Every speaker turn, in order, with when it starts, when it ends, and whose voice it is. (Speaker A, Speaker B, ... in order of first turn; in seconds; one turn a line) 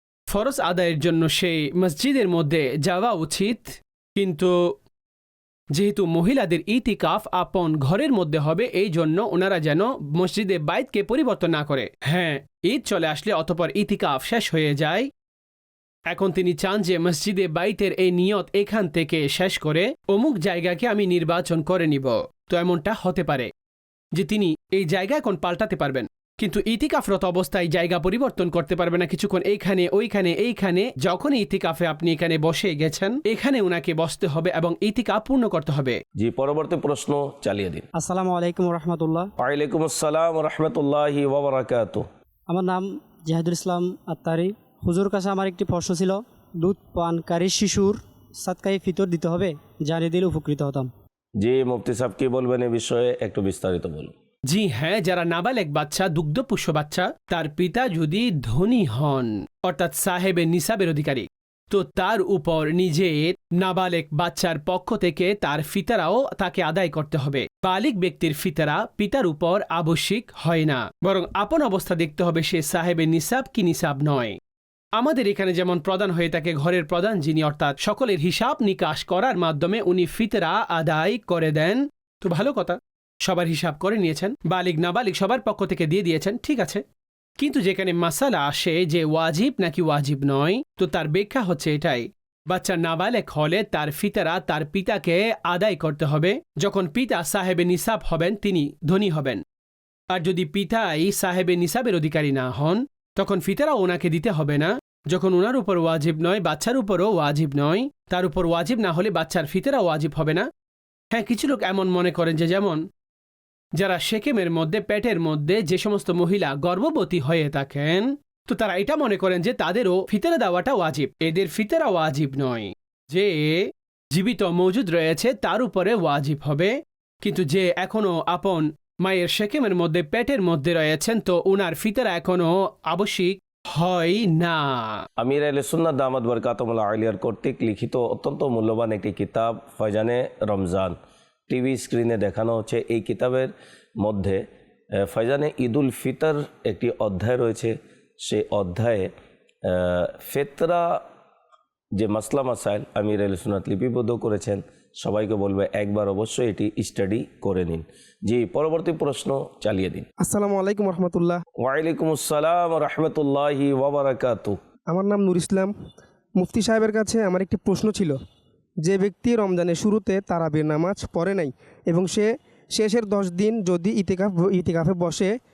Speaker A: 0.3-4.6
Speaker A: 5.8-15.1
Speaker A: 16.1-23.5
Speaker A: 24.2-36.0
Speaker B: 36.2-37.8
Speaker C: 38.0-39.3
Speaker B: 39.4-42.1
Speaker C: 42.5-50.9
Speaker B: 51.4-54.1
Speaker A: 54.5-74.4
Speaker A: 75.0-86.8
Speaker A: 87.4-99.4
Speaker A: 100.1-110.5
Speaker A: 111.1-112.8
Speaker A: 113.8-135.0
Speaker B: 135.2-141.0
Speaker B: 141.5-144.4
Speaker B: 145.0-149.1
Speaker B: 149.7-151.0
Speaker B: 151.9-160.1
Speaker D: 160.2-161.4
Speaker B: 161.6-164.6
Speaker D: 164.9-165.7
Speaker D: 166.4-168.1
Speaker D: 168.8-175.3